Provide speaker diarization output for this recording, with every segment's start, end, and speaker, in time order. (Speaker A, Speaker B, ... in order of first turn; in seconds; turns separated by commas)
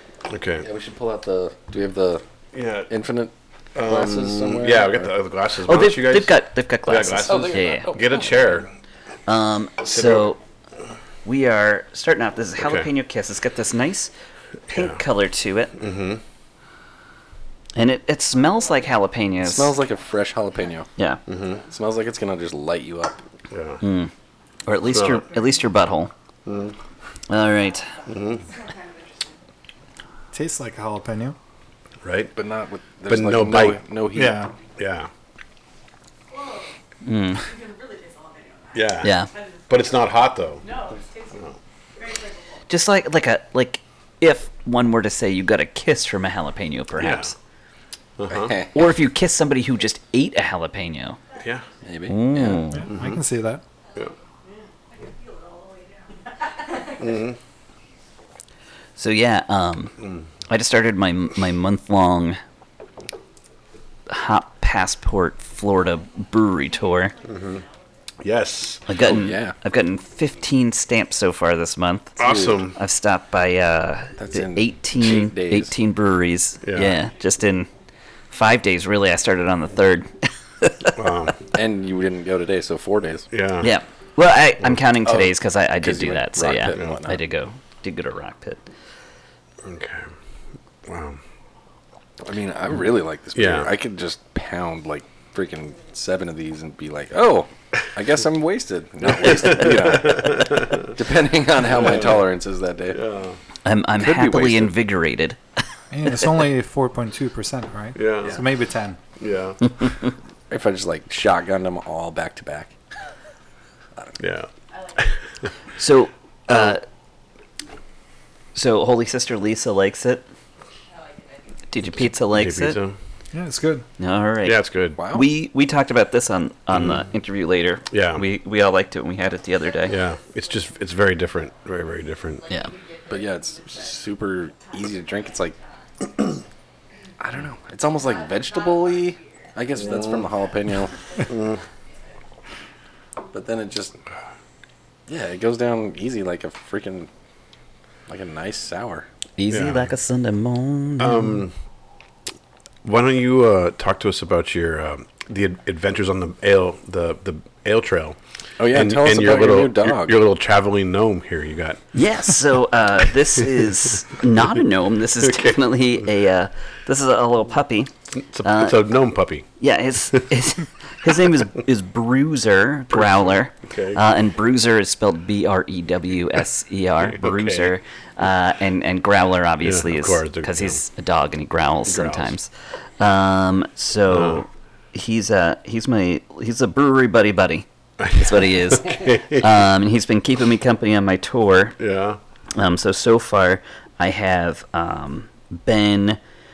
Speaker A: 0.3-0.7, Speaker B: 0.6-2.2, Speaker A: 2.5-2.9, Speaker B: 2.9-3.3, Speaker A: 3.7-8.7, Speaker B: 3.8-4.8, Speaker C: 5.6-7.9, Speaker B: 7.2-8.4, Speaker C: 9.3-10.4, Speaker A: 9.9-10.3, Speaker C: 11.2-14.1, Speaker A: 12.6-12.9, Speaker C: 14.7-15.8, Speaker A: 14.7-15.0, Speaker A: 15.8-16.2, Speaker C: 17.8-19.8, Speaker B: 19.4-20.9, Speaker A: 21.3-21.6, Speaker B: 21.6-23.2, Speaker A: 23.5-23.8, Speaker C: 23.8-24.1, Speaker C: 24.6-26.1, Speaker A: 24.9-25.3, Speaker A: 26.4-26.7, Speaker C: 27.3-27.9, Speaker A: 28.1-28.5, Speaker D: 28.5-29.3, Speaker E: 30.3-31.4, Speaker A: 32.0-32.3, Speaker B: 32.3-34.5, Speaker A: 33.1-33.8, Speaker E: 34.1-34.5, Speaker A: 34.8-35.1, Speaker C: 37.0-37.5, Speaker D: 37.4-39.4, Speaker A: 38.7-40.8, Speaker C: 39.0-39.3, Speaker D: 40.6-41.4, Speaker D: 42.0-42.5, Speaker C: 42.7-47.3, Speaker A: 46.9-47.3, Speaker A: 48.2-48.6, Speaker B: 48.3-48.7, Speaker C: 48.7-51.2, Speaker A: 51.4-51.6, Speaker B: 51.8-52.7, Speaker C: 52.1-52.9, Speaker E: 52.8-53.6, Speaker A: 52.9-53.2, Speaker D: 55.0-57.2, Speaker A: 57.0-57.4, Speaker C: 59.0-60.0, Speaker A: 60.0-60.2, Speaker C: 60.5-62.4, Speaker C: 64.1-67.2, Speaker A: 67.2-67.6, Speaker A: 68.2-68.9, Speaker C: 68.9-77.7, Speaker B: 69.0-69.5, Speaker A: 72.2-72.8, Speaker B: 72.2-72.6, Speaker B: 74.2-75.7, Speaker A: 76.6-77.0, Speaker C: 78.3-81.0, Speaker A: 80.9-81.4, Speaker B: 81.5-83.3, Speaker A: 83.3-83.7, Speaker C: 83.6-88.6, Speaker B: 85.0-87.2, Speaker A: 89.6-90.1, Speaker A: 90.9-91.2, Speaker B: 92.2-103.0, Speaker A: 93.3-93.7, Speaker A: 99.1-100.9, Speaker A: 101.7-102.3, Speaker A: 102.9-103.4, Speaker C: 103.6-105.4, Speaker B: 104.0-104.8, Speaker E: 105.9-109.0, Speaker A: 107.9-108.4, Speaker A: 109.2-109.8, Speaker B: 110.5-112.7, Speaker A: 114.2-115.5, Speaker C: 115.8-116.8, Speaker C: 118.5-120.2, Speaker D: 120.9-121.5, Speaker C: 121.7-122.8, Speaker A: 122.0-123.0, Speaker E: 123.3-123.8, Speaker C: 124.0-130.0, Speaker A: 124.4-125.0, Speaker B: 125.0-125.3, Speaker A: 127.9-128.2, Speaker A: 129.8-132.5, Speaker D: 129.9-131.2, Speaker D: 132.2-135.9, Speaker B: 133.1-135.6, Speaker B: 137.2-141.0, Speaker D: 138.0-139.8, Speaker D: 140.9-141.5, Speaker A: 141.3-141.6, Speaker B: 143.3-144.0, Speaker B: 145.1-147.1, Speaker B: 148.1-149.1, Speaker C: 149.4-151.4, Speaker A: 149.5-149.9, Speaker A: 151.0-151.5, Speaker A: 152.8-161.8, Speaker B: 158.6-160.2, Speaker C: 161.9-167.9, Speaker A: 164.3-164.6, Speaker A: 165.2-165.7, Speaker A: 168.1-169.5, Speaker C: 168.4-168.8, Speaker C: 169.6-191.8, Speaker A: 172.9-174.0, Speaker A: 177.0-177.8, Speaker A: 179.6-180.8, Speaker A: 181.8-182.3, Speaker A: 184.1-184.4, Speaker A: 188.0-189.7, Speaker A: 191.8-192.2, Speaker C: 192.5-196.2